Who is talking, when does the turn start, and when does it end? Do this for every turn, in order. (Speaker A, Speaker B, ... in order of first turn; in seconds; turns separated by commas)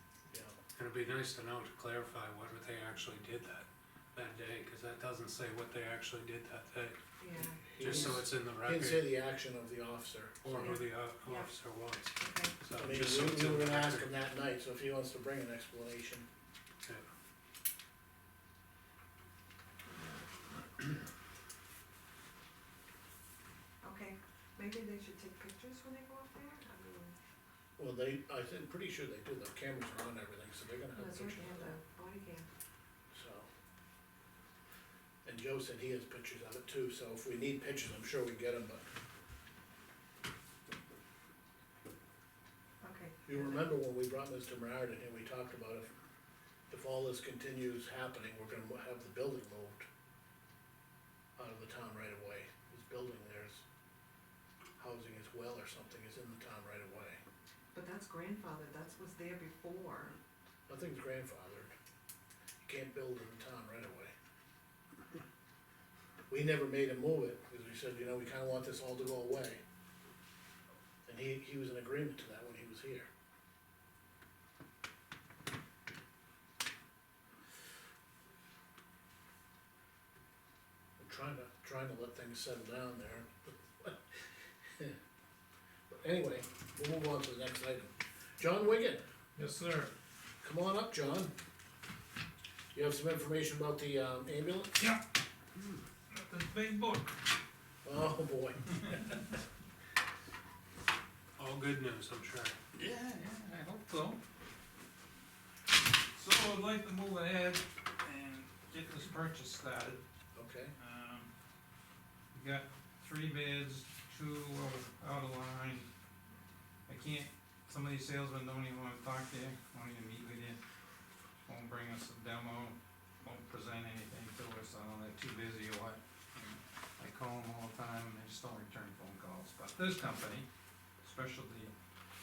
Speaker A: 0.3-0.6, Speaker B: 0.7-7.0, Speaker C: 7.2-8.1, Speaker A: 7.4-10.8, Speaker B: 7.8-9.1, Speaker B: 10.4-14.1, Speaker C: 10.5-11.5, Speaker C: 12.2-12.6, Speaker A: 12.8-16.3, Speaker C: 19.9-20.3, Speaker C: 23.8-27.1, Speaker A: 27.8-31.7, Speaker C: 30.9-32.5, Speaker A: 33.1-33.5, Speaker A: 35.2-38.9, Speaker C: 42.8-43.6, Speaker A: 43.3-45.9, Speaker A: 46.7-49.9, Speaker A: 51.4-53.6, Speaker A: 54.8-57.2, Speaker C: 57.7-60.2, Speaker A: 60.7-61.7, Speaker A: 62.6-64.1, Speaker A: 66.3-69.6, Speaker A: 71.0-73.1, Speaker A: 81.0-84.2, Speaker A: 85.9-89.0, Speaker D: 89.4-89.9, Speaker A: 90.4-91.3, Speaker A: 92.7-94.7, Speaker D: 96.1-97.2, Speaker A: 97.8-99.4, Speaker B: 101.4-102.6, Speaker D: 102.8-104.2, Speaker D: 106.1-110.0, Speaker A: 110.3-110.7, Speaker D: 110.8-111.3, Speaker D: 112.3-115.9, Speaker D: 116.9-120.6, Speaker D: 121.5-130.4, Speaker D: 131.0-131.7